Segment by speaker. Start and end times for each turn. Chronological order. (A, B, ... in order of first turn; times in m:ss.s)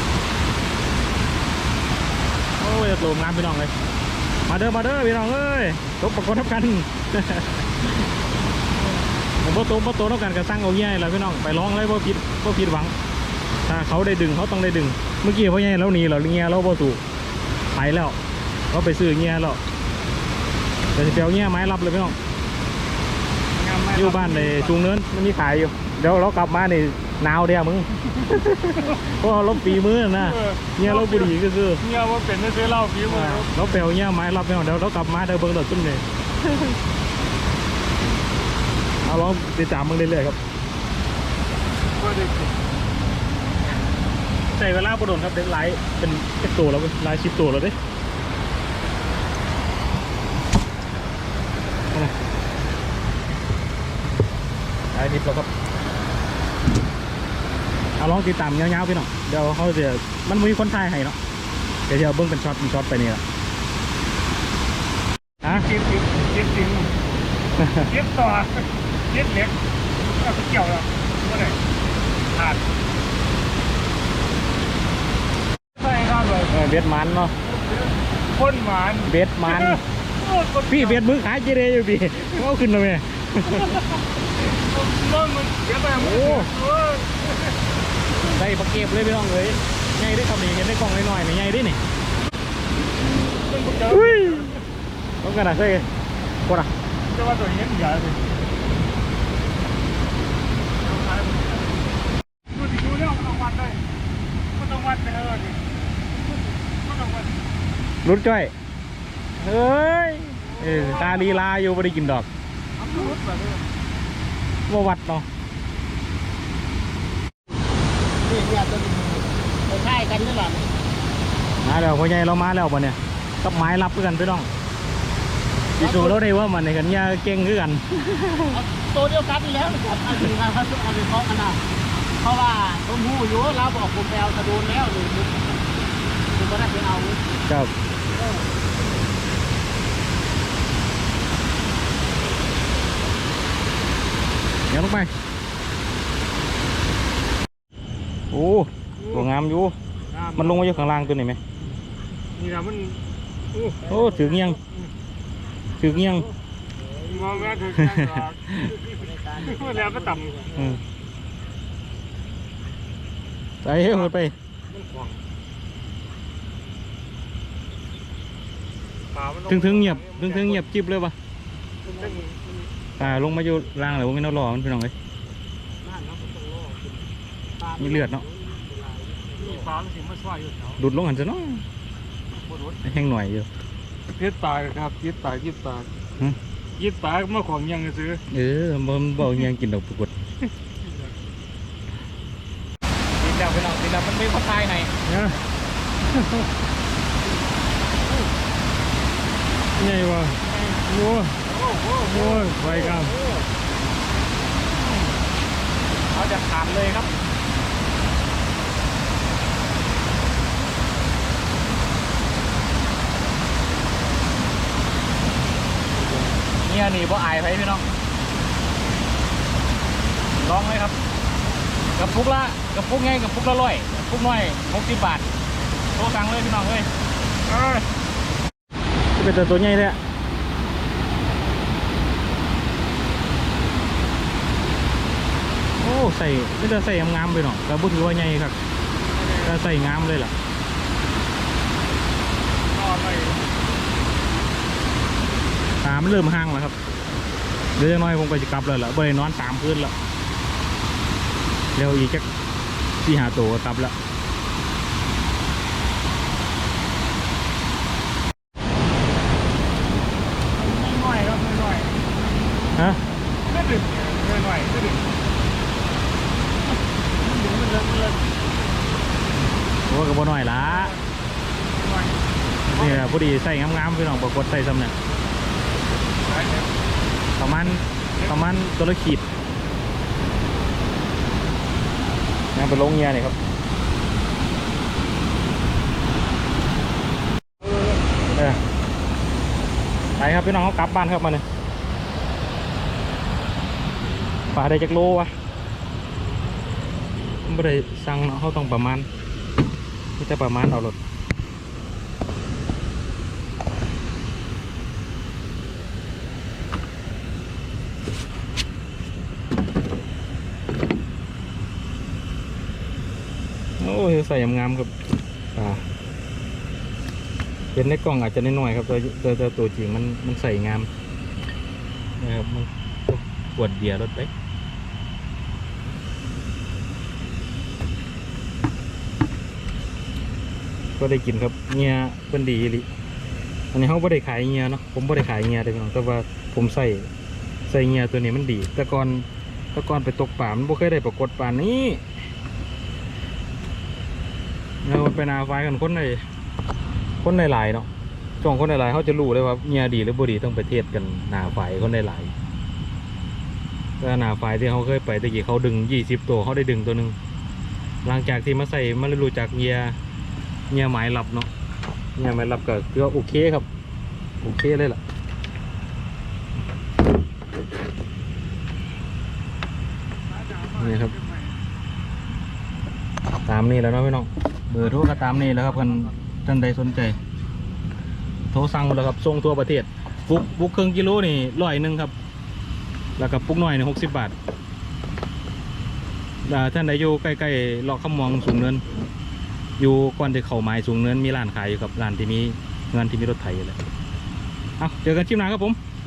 0:02.6-0:03.7 A
0:04.5-0:07.9 A
0:09.4-0:12.9 A
0:13.6-0:17.0 A
0:17.7-0:18.2 A
0:18.7-0:19.6 A
0:20.9-0:22.2 A
0:23.6-0:24.7 B
0:23.9-0:31.8 A
0:30.2-0:33.5 B
0:33.0-0:36.7 A
0:39.0-0:40.4 A
0:42.0-0:42.5 B
0:44.5-0:47.7 A
0:54.9-0:55.5 A
0:58.0-1:01.2 A
1:01.9-1:03.2 A
1:05.4-1:06.9 B
1:07.6-1:07.9 A
1:07.9-1:11.6 B
1:12.3-1:12.6 B
1:15.8-1:16.5 B
1:16.5-1:17.3 A
1:17.5-1:21.1 B
1:19.0-1:19.8 A
1:20.7-1:24.0 A
1:24.4-1:27.3 B
1:25.9-1:26.5 A
1:28.2-1:31.8 A
1:33.4-1:34.6 B
1:33.9-1:34.6 A
1:35.2-1:35.8 A
1:36.4-1:36.7 A
1:37.0-1:38.2 B
1:41.1-1:41.4 B
1:42.5-1:43.8 B
1:44.5-1:45.6 B
1:46.8-1:47.4 B
1:48.0-1:48.5 A
1:49.4-1:52.3 A
1:50.5-1:51.4 B
1:53.0-1:53.4 C
1:54.7-1:55.2 A
1:58.3-2:00.7 C
2:01.6-2:04.5 A
2:05.8-2:08.6 A
2:08.6-2:11.6 C
2:12.2-2:15.7 C
2:16.3-2:17.2 C
2:17.5-2:17.7 A
2:24.7-2:25.1 A
2:28.3-2:29.7 A
2:29.0-2:29.2 B
2:30.1-2:31.0 B
2:30.3-2:31.4 A
2:32.4-2:33.0 B
2:33.5-2:33.9 B
2:33.8-2:34.6 A
2:35.8-2:36.3 A
2:37.1-2:40.6 B
2:37.8-2:38.8 A
2:39.2-2:40.5 C
2:40.5-2:40.8 A
2:43.6-2:44.3 A
2:44.7-2:45.2 B
2:49.1-2:50.6 B
2:49.4-2:51.1 A
2:52.0-2:52.5 B
2:53.0-2:54.9 A
2:55.8-2:57.0 C
2:57.6-2:59.5 C
2:57.7-2:58.3 A
2:59.4-3:00.8 B
3:00.8-3:01.6 A
3:02.8-3:03.5 A
3:04.1-3:05.9 B
3:06.8-3:08.2 B
3:08.3-3:10.1 A
3:13.2-3:14.9 A
3:15.0-3:15.4 B
3:19.8-3:21.4 B
3:21.5-3:23.4 A
3:22.0-3:23.2 B
3:26.1-3:27.1 A
3:36.6-3:37.8 A
3:40.4-3:41.0 A
3:42.0-3:45.3 A
3:45.9-3:46.9 A
3:47.5-3:47.8 A
3:49.2-3:50.0 A
3:55.8-3:58.6 A
3:59.2-3:59.6 B
3:59.4-4:00.3 A
4:02.7-4:03.4 B
4:05.8-4:06.8 A
4:07.8-4:09.9 A
4:11.8-4:12.2 A
4:13.0-4:13.9 A
4:20.6-4:22.0 B
4:23.5-4:25.1 B
4:29.9-4:30.9 A
4:30.6-4:31.0 B
4:31.7-4:32.2 B
4:32.7-4:34.9 A
4:32.7-4:33.1 B
4:36.4-4:36.6 B
4:37.4-4:39.2 A
4:42.5-4:43.4 A
4:48.3-4:48.6 A
4:50.2-4:51.4 A
4:54.5-4:55.3 A
4:57.4-4:59.1 A
5:00.2-5:01.0 A
5:13.8-5:14.9 A
5:15.5-5:15.8 A
5:17.7-5:20.9 A
5:22.2-5:24.3 A
5:31.0-5:32.9 A
5:33.7-5:37.1 A
5:37.6-5:42.0 A
5:44.8-5:46.2 A
5:47.2-5:47.9 A
5:48.4-5:52.3 A
5:54.0-5:57.2 A
5:58.0-6:00.0 A
6:00.7-6:01.5 A
6:02.2-6:03.6 A
6:04.4-6:05.0 A
6:10.4-6:11.5 B
6:10.7-6:11.1 A
6:13.4-6:17.2 A
6:18.5-6:22.1 A
6:23.2-6:24.3 A
6:26.4-6:28.8 A
6:29.8-6:33.8 A
6:34.8-6:35.8 A